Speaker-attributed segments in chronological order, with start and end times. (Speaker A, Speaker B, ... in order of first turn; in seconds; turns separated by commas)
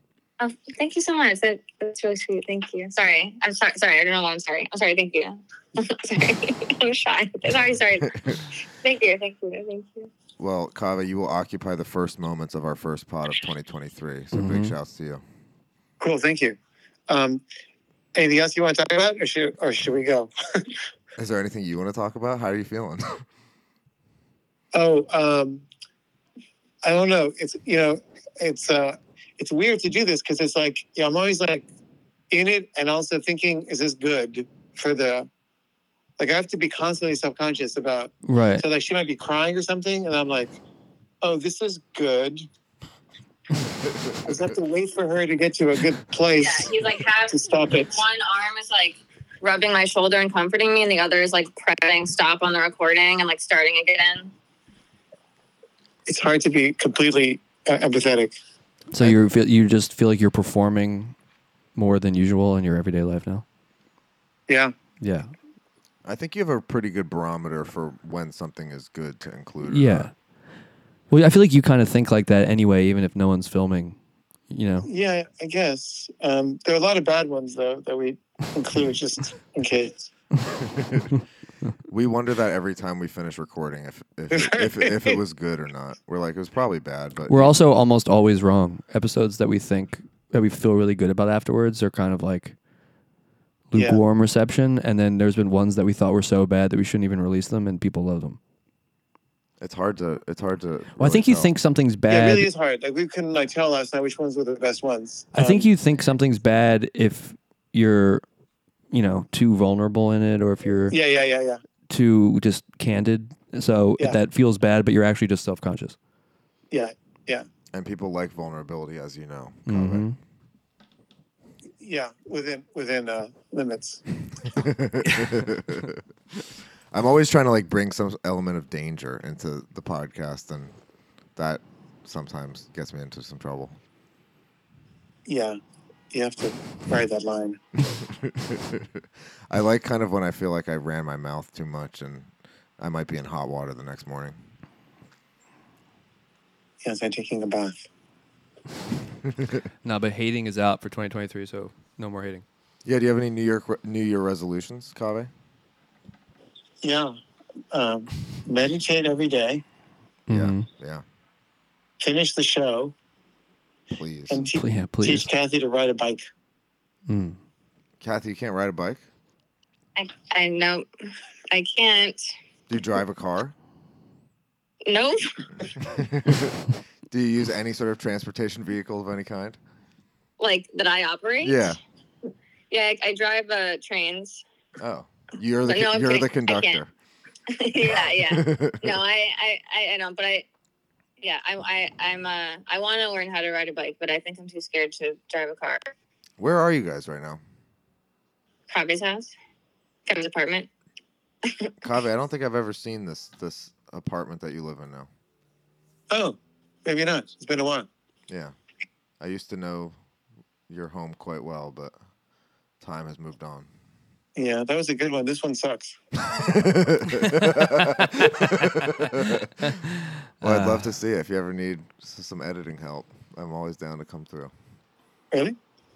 Speaker A: 0.4-10.1, Speaker B: 10.4-15.2, Speaker C: 14.3-14.8, Speaker D: 16.0-17.4, Speaker D: 18.1-20.8, Speaker B: 21.2-23.2, Speaker D: 24.7-25.6, Speaker D: 26.8-31.6, Speaker D: 32.3-35.3, Speaker D: 36.2-40.6, Speaker C: 38.2-38.6, Speaker D: 41.2-42.5, Speaker D: 44.2-48.0, Speaker A: 46.4-54.3, Speaker D: 56.1-58.3, Speaker C: 58.9-61.1, Speaker C: 61.8-63.4, Speaker D: 64.5-64.7, Speaker C: 65.0-65.3, Speaker B: 66.0-70.1, Speaker C: 69.6-70.1, Speaker C: 71.1-74.0, Speaker C: 74.5-74.9, Speaker D: 74.8-80.1, Speaker B: 80.6-81.1, Speaker B: 81.9-87.6, Speaker D: 84.3-85.2, Speaker C: 87.3-92.6, Speaker C: 93.7-98.4, Speaker D: 93.8-94.0, Speaker B: 99.6-101.5, Speaker C: 101.0-102.5, Speaker D: 102.1-105.7, Speaker C: 105.3-108.2, Speaker C: 108.9-111.0, Speaker D: 110.9-111.6, Speaker C: 111.9-116.0, Speaker D: 116.7-117.5, Speaker B: 117.7-120.1, Speaker C: 119.7-120.2, Speaker D: 121.8-124.0, Speaker B: 124.5-130.8, Speaker C: 125.0-125.4, Speaker B: 131.4-133.8, Speaker D: 135.3-135.6, Speaker D: 136.1-137.6, Speaker B: 137.9-144.4, Speaker D: 146.8-147.8, Speaker C: 149.8-152.4, Speaker B: 152.8-155.3, Speaker D: 156.8-157.1, Speaker D: 157.7-159.6, Speaker C: 160.3-160.7, Speaker B: 160.3-161.0, Speaker D: 162.0-162.9, Speaker B: 163.9-164.5, Speaker D: 164.3-166.2, Speaker C: 164.6-165.3, Speaker C: 167.1-167.4, Speaker B: 168.0-169.0, Speaker A: 169.9-170.9, Speaker A: 171.5-172.3, Speaker B: 172.7-173.6, Speaker A: 174.9-175.3, Speaker B: 175.8-179.6, Speaker A: 180.4-181.8, Speaker B: 181.4-181.8, Speaker A: 182.7-184.4, Speaker B: 184.8-186.9, Speaker A: 185.7-186.8, Speaker A: 187.5-190.4, Speaker B: 187.9-189.0, Speaker A: 191.2-195.9, Speaker B: 196.4-197.4, Speaker A: 198.7-199.3, Speaker A: 200.1-200.7, Speaker B: 201.8-205.1, Speaker D: 206.1-207.9, Speaker B: 208.3-208.6, Speaker B: 209.2-209.9, Speaker B: 210.7-211.9, Speaker B: 212.8-213.7, Speaker D: 214.4-216.0, Speaker B: 216.3-219.7, Speaker C: 218.1-220.9, Speaker B: 220.4-224.5